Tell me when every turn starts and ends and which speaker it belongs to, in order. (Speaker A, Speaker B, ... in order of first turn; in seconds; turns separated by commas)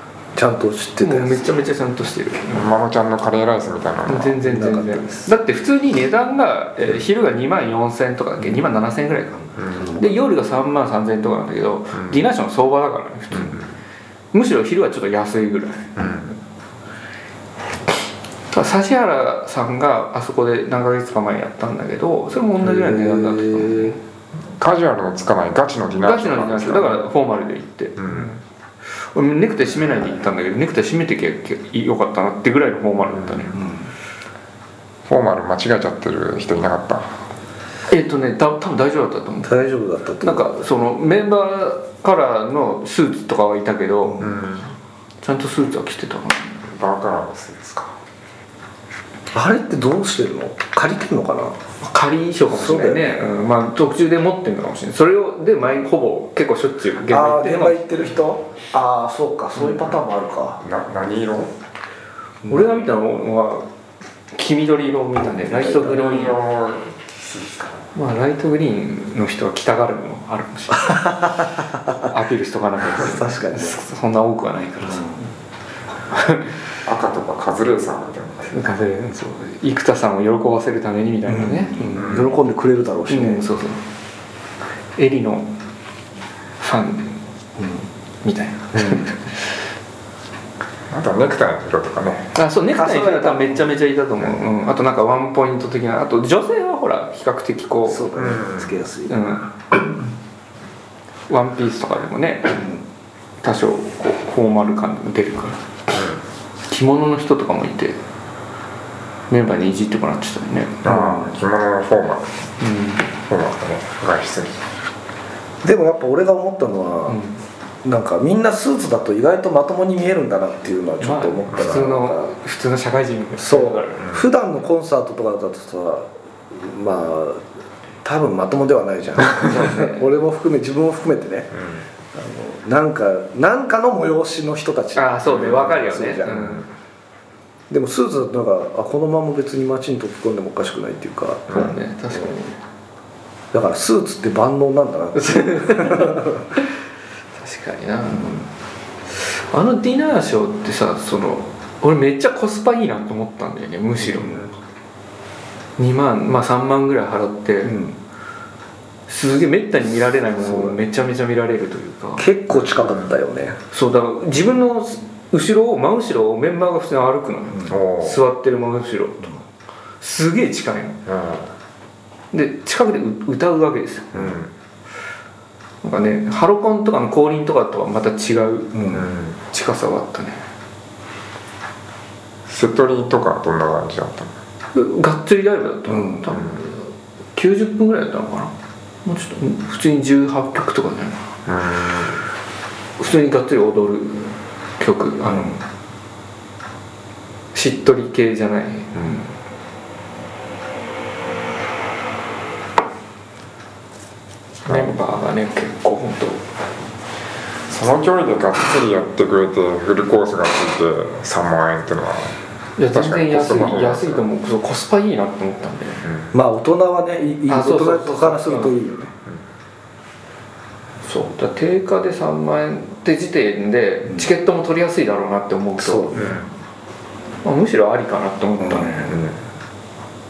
Speaker A: 0.3-1.6, Speaker B: 1.0-2.7, Speaker C: 2.5-4.4, Speaker B: 4.1-13.6, Speaker A: 4.4-5.3, Speaker C: 9.6-9.9, Speaker A: 9.7-10.2, Speaker C: 11.9-12.2, Speaker C: 13.3-13.6, Speaker B: 14.3-16.1, Speaker C: 15.9-16.3, Speaker B: 18.5-24.0, Speaker A: 22.6-23.9, Speaker C: 24.6-27.0, Speaker B: 26.0-28.4, Speaker C: 28.0-28.3, Speaker B: 29.1-33.7, Speaker A: 33.5-33.9, Speaker C: 35.1-37.1, Speaker B: 37.9-39.6, Speaker A: 39.4-40.6, Speaker B: 40.2-44.2, Speaker A: 44.0-44.3, Speaker C: 44.2-44.7, Speaker B: 45.2-46.6, Speaker C: 46.6-47.9, Speaker A: 49.3-51.6, Speaker B: 51.8-57.9, Speaker A: 52.5-53.3, Speaker A: 57.1-60.6, Speaker C: 60.6-61.5, Speaker B: 62.5-63.6, Speaker B: 64.3-66.4, Speaker A: 65.4-66.0, Speaker C: 65.9-67.8, Speaker B: 67.9-71.3, Speaker A: 70.7-72.0, Speaker B: 71.9-75.1, Speaker A: 72.9-73.8, Speaker A: 74.8-75.3, Speaker B: 76.1-76.5, Speaker C: 76.8-78.6, Speaker B: 78.5-82.3, Speaker A: 81.2-83.5, Speaker C: 81.9-82.3, Speaker B: 83.1-83.8, Speaker B: 85.0-85.5, Speaker B: 86.6-87.2, Speaker A: 87.6-87.8, Speaker B: 88.2-89.6, Speaker A: 88.7-89.0, Speaker C: 90.9-92.3, Speaker B: 92.3-98.1, Speaker A: 92.7-93.8, Speaker A: 97.9-99.2, Speaker C: 98.2-98.8, Speaker B: 99.1-99.5, Speaker B: 101.3-102.6, Speaker A: 102.5-102.8, Speaker B: 103.4-105.6, Speaker C: 105.9-106.2, Speaker B: 106.7-108.0, Speaker B: 109.3-111.0, Speaker C: 110.8-112.4, Speaker A: 110.8-111.3, Speaker B: 112.6-113.1, Speaker C: 113.3-114.6, Speaker A: 115.6-117.2, Speaker B: 117.1-117.4, Speaker A: 117.8-122.3, Speaker B: 121.0-124.0, Speaker A: 123.4-127.4, Speaker C: 124.0-124.2, Speaker A: 128.0-131.5, Speaker B: 129.4-130.0, Speaker C: 131.5-131.8, Speaker A: 132.1-136.6, Speaker B: 134.9-136.7, Speaker C: 135.2-135.5, Speaker C: 136.3-136.6, Speaker A: 137.7-142.3, Speaker C: 141.5-141.7, Speaker B: 141.5-142.6, Speaker A: 143.5-146.5, Speaker B: 145.1-146.3, Speaker B: 147.3-148.5, Speaker A: 148.1-148.5, Speaker B: 149.1-154.4, Speaker A: 154.0-154.4, Speaker B: 155.8-157.8, Speaker A: 157.6-158.0, Speaker B: 159.1-162.2, Speaker A: 160.4-160.8, Speaker A: 162.2-163.6, Speaker C: 162.5-163.1, Speaker B: 163.7-169.3, Speaker C: 167.7-168.2, Speaker B: 170.0-171.0, Speaker C: 171.1-171.5, Speaker B: 172.3-174.2, Speaker C: 174.1-174.5, Speaker B: 175.8-180.4, Speaker A: 178.7-179.1, Speaker C: 178.9-179.3, Speaker C: 182.5-184.3, Speaker B: 184.7-188.5, Speaker A: 185.9-186.3, Speaker C: 186.3-186.6, Speaker B: 189.0-191.3, Speaker C: 191.4-192.2, Speaker B: 193.0-195.6, Speaker B: 197.5-199.1, Speaker C: 198.9-199.2, Speaker B: 204.7-206.4, Speaker C: 204.7-204.9, Speaker C: 207.7-214.2, Speaker B: 212.8-216.1, Speaker C: 216.0-216.3, Speaker A: 216.3-219.1, Speaker B: 217.5-218.7, Speaker B: 221.0-226.2, Speaker A: 225.8-226.4, Speaker C: 226.1-226.5, Speaker B: 227.4-229.3, Speaker A: 228.6-229.2